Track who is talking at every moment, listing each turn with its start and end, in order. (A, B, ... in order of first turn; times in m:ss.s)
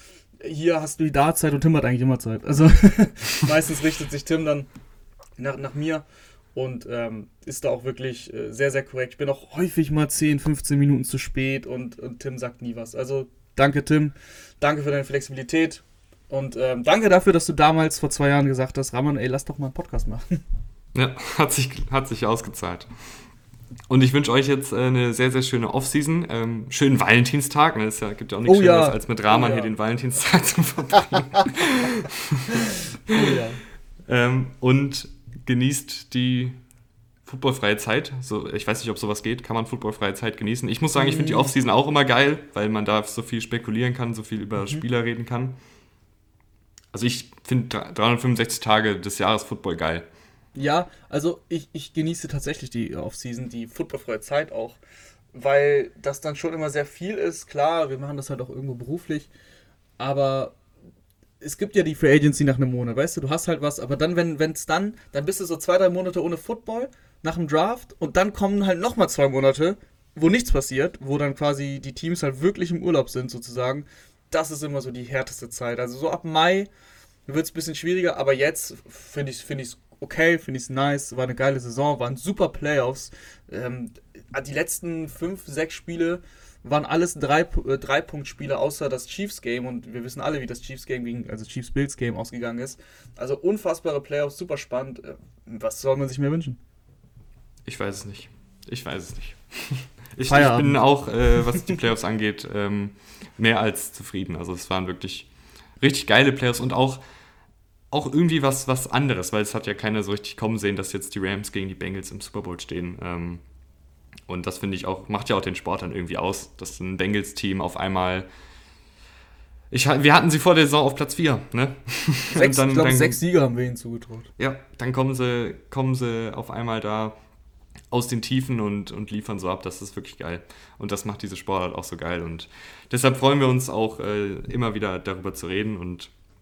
0:00.4-0:04.7 A
0:05.4-0:06.0 A
0:06.6-0:20.4 A
0:20.9-0:22.9 B
0:23.9-0:33.4 B
0:28.5-0:29.7 A
0:33.1-0:33.6 A
0:34.1-0:36.6 B
0:37.2-0:45.6 B
0:41.0-0:41.5 A
0:46.9-0:50.1 B
0:50.6-0:54.8 A
0:55.3-0:59.3 A
1:00.0-1:00.6 A
1:01.4-1:16.7 A
1:17.3-1:36.6 A
1:37.7-1:45.3 B
1:40.3-1:40.8 A
1:45.8-1:47.0 B
1:47.9-1:53.4 B
1:54.3-1:58.3 B
1:59.7-2:03.2 B
2:02.3-2:04.3 A
2:04.4-2:07.2 B
2:07.9-2:16.1 B